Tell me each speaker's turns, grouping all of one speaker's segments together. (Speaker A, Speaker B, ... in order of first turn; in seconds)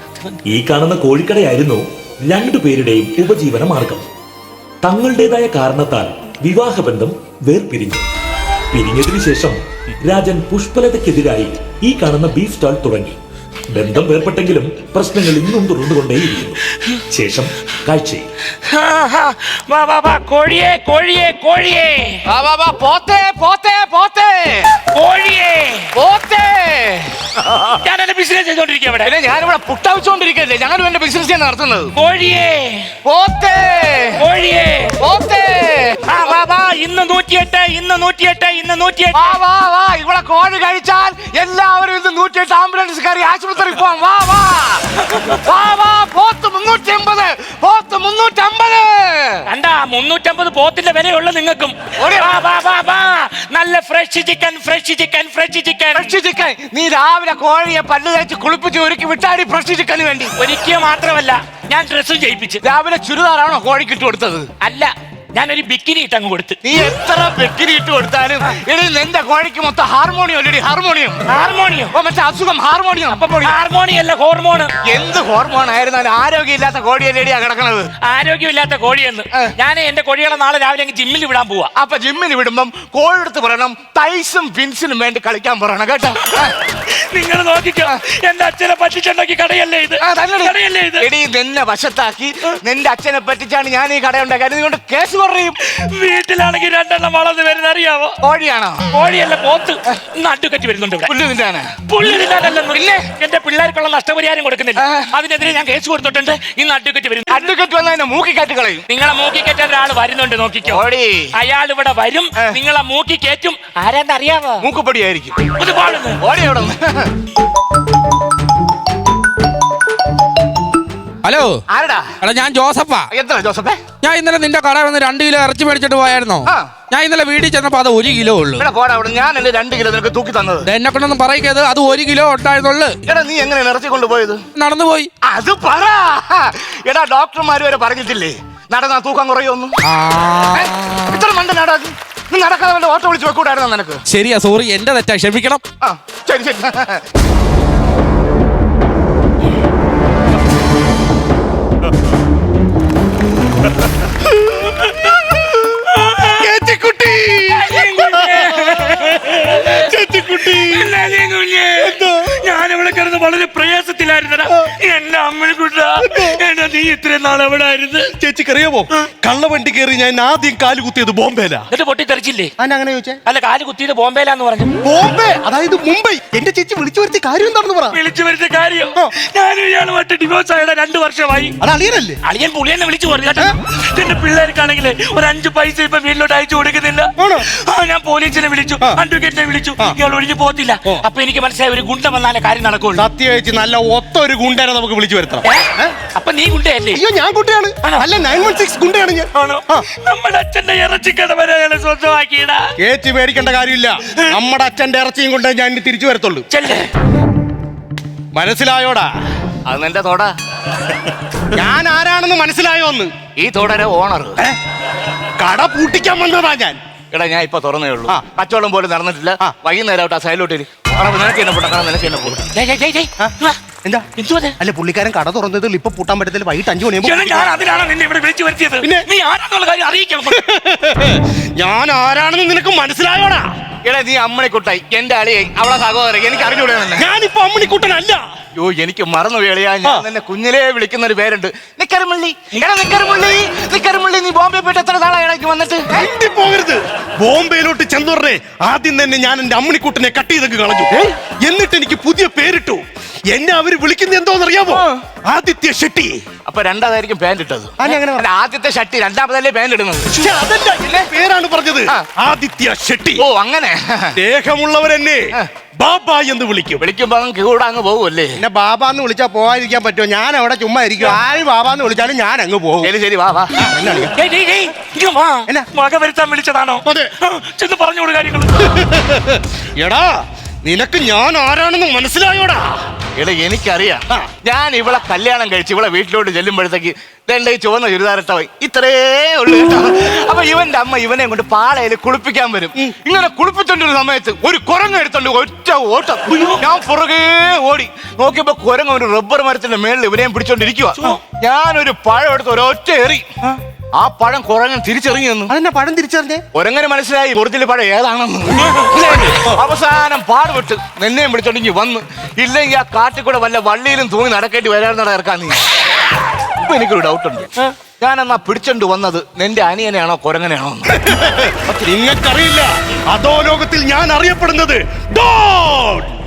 Speaker A: 0.5-4.0, 4.8-8.0, 8.7-13.2, 13.7-18.3
Speaker B: 19.8-22.2, 24.9-25.8, 27.9-29.1, 31.9-32.9, 34.2-35.0, 36.1-39.1, 49.5-56.1, 60.4-62.6, 64.6-66.5, 71.3-71.9, 73.1-74.7, 78.0-81.7, 87.1-91.0, 95.7-98.2, 98.9-101.1, 101.9-107.3, 108.9-110.7, 111.4-114.6, 115.7-116.2, 157.5-159.8, 160.6-168.1, 171.7-172.5, 173.2-174.8, 177.9-181.5, 182.3-187.1, 187.8-193.0, 196.2-196.9, 199.3-202.6, 206.5-206.9, 222.5-223.6, 224.2-224.5, 227.0-230.4, 273.9-278.5, 296.3-296.6
Speaker C: 22.3-24.7, 25.9-27.8, 29.0-31.9, 33.0-34.3, 35.0-36.0, 39.1-49.4, 52.0-52.5, 55.9-60.3, 62.6-64.5, 66.6-71.3, 71.9-73.6, 74.9-77.9, 81.8-86.5, 90.0-95.6, 98.2-98.8, 101.0-101.7, 102.7-103.0, 104.8-105.1, 107.3-108.8, 110.6-111.3, 114.6-115.4, 116.2-117.1, 121.7-122.1, 123.1-123.8, 126.5-126.7, 128.6-130.7, 133.1-134.4, 135.2-139.8, 140.5-144.0, 145.8-147.0, 209.7-210.3, 213.4-214.4, 217.1-222.5, 233.8-237.1, 238.6-246.1, 254.7-255.0, 256.4-260.2, 263.2-264.1, 266.8-268.4, 272.8-273.5, 283.1-303.3, 304.0-305.5, 306.5-315.6, 316.6-321.1
Speaker D: 121.2-121.6, 122.2-123.1, 124.0-128.7, 130.7-133.0, 134.6-135.1, 139.8-140.8, 144.1-145.6
Speaker E: 156.4-160.9, 161.8-162.3, 166.0-166.4, 168.1-171.7, 172.6-173.2, 174.8-178.0, 181.6-182.2, 187.2-187.5, 192.9-195.9, 196.9-199.8, 202.8-206.4, 208.3-209.1, 211.5-213.1, 215.4-216.8, 224.6-227.5, 228.8-229.1, 230.3-233.4, 236.9-238.2, 245.9-256.2, 257.8-258.2, 260.1-263.2, 264.1-265.3, 265.8-266.8, 268.4-272.9, 273.6-274.1, 276.8-277.1, 278.6-280.1, 280.6-282.6, 305.5-306.4, 320.9-326.1